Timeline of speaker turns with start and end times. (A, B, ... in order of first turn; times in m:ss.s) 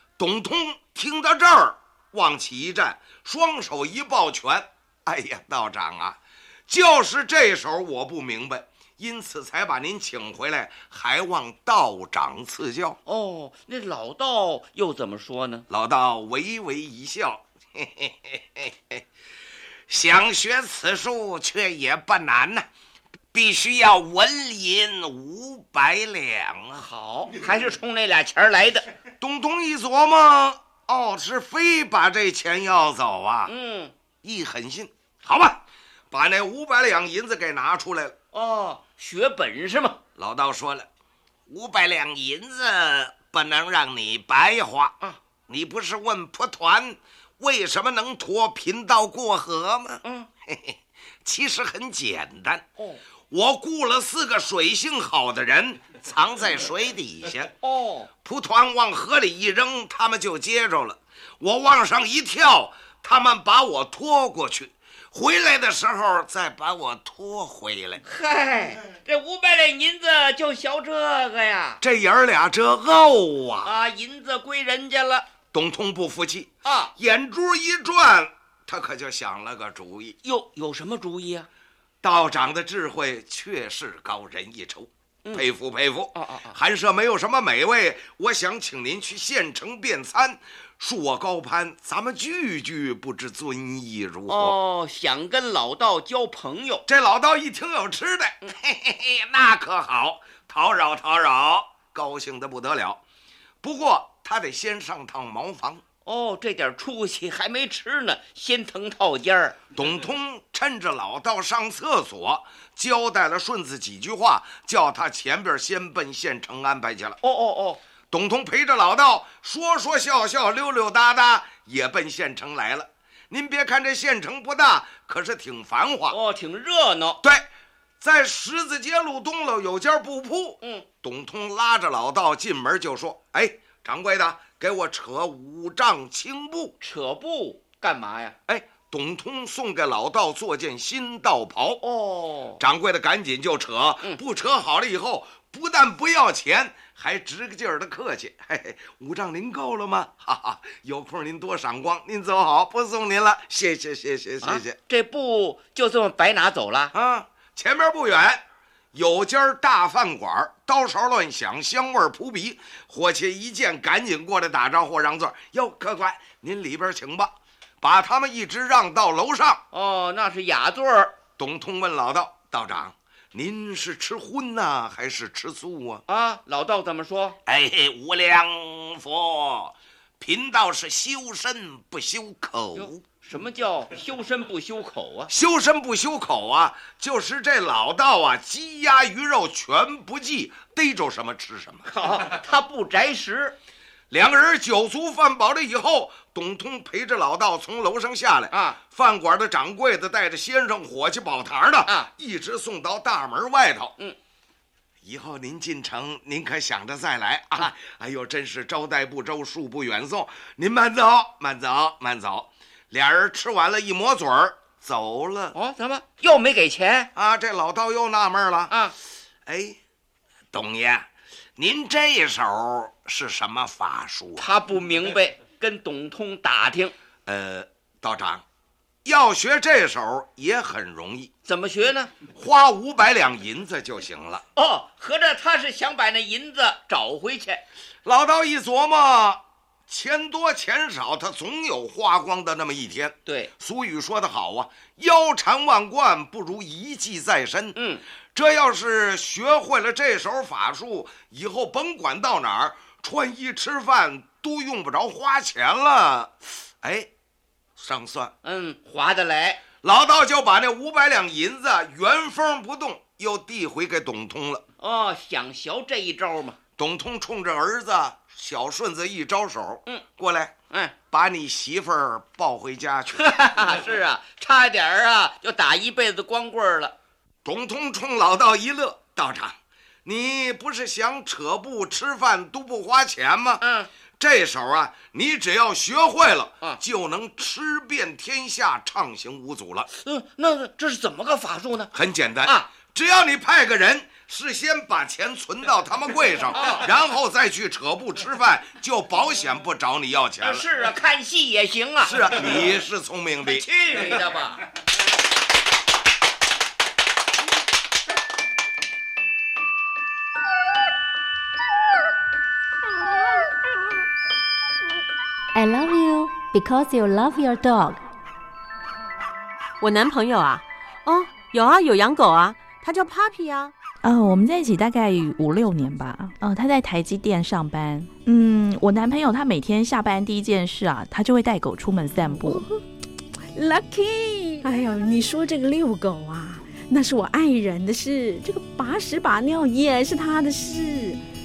0:00.2-0:13.0 A
0:13.0-0:15.6 B
0:15.7-0:19.0 A
0:19.9-0:22.7 A
0:23.3-0:26.8 A
0:26.8-0:28.8 B
0:29.2-0:33.5 A
0:33.5-0:33.9 B
0:34.2-0:38.2 A
0:38.3-0:40.0 B
0:40.2-0:40.9 A
0:41.5-0:45.0 A
0:45.5-0:52.6 A
0:53.3-0:57.5 A
0:57.6-0:58.1 B
0:58.2-1:08.0 A
1:08.0-1:11.8 B
1:11.8-1:13.7 A
1:13.6-1:15.2 B
1:15.5-1:20.2 A
1:16.6-1:16.9 B
1:20.2-1:21.5 B
1:22.0-1:34.6 A
1:26.1-1:26.6 B
1:34.3-1:36.8 B
1:36.9-1:43.0 A
1:43.6-1:45.8 A
1:46.0-1:49.6 B
1:49.7-1:57.2 A
1:57.2-1:57.8 B
1:58.1-2:06.2 A
2:06.1-2:07.2 B
2:07.2-2:07.5 A
2:08.0-2:16.7 A
2:16.8-2:18.4 B
2:18.5-2:21.8 A
2:21.8-2:22.6 B
2:22.6-2:34.8 A
2:34.4-2:36.9 B
2:36.9-2:49.6 A
2:49.7-2:51.2 B
2:51.4-2:56.0 A
2:56.1-2:57.4 B
2:57.4-3:03.0 A
3:02.8-3:05.3 B
3:05.3-3:11.8 A
3:11.9-3:13.6 B
3:14.1-3:23.9 A
3:18.5-3:18.8 B
3:25.0-3:35.5 A
3:35.5-3:37.1 B
3:37.1-3:38.7 A
3:39.4-3:39.8 A
3:40.5-3:44.5 A
3:44.4-3:46.9 B
3:47.2-3:48.4 A
3:49.0-3:51.3 A
3:51.4-3:52.1 B
3:52.4-3:54.4 A
3:54.6-3:57.6 B
3:58.0-4:07.8 A
4:07.8-4:08.0 B
4:08.3-4:17.1 A
4:17.8-4:18.3 A
4:18.4-4:19.6 B
4:19.8-4:24.6 A
4:24.8-4:26.6 B
4:26.8-4:30.6 A
4:31.1-4:33.3 A
4:33.2-4:36.9 B
4:37.4-4:43.6 A
4:43.6-4:43.9 B
4:44.2-4:49.9 A
4:50.0-4:51.9 B
4:51.9-5:00.6 A
4:52.4-4:52.7 B
4:56.5-4:56.9 B
5:00.4-5:02.6 B
5:02.0-5:03.7 A
5:03.4-5:04.6 B
5:15.5-5:18.0 C
5:19.8-5:23.7 D
5:24.0-5:32.6 E
5:33.5-5:41.2 F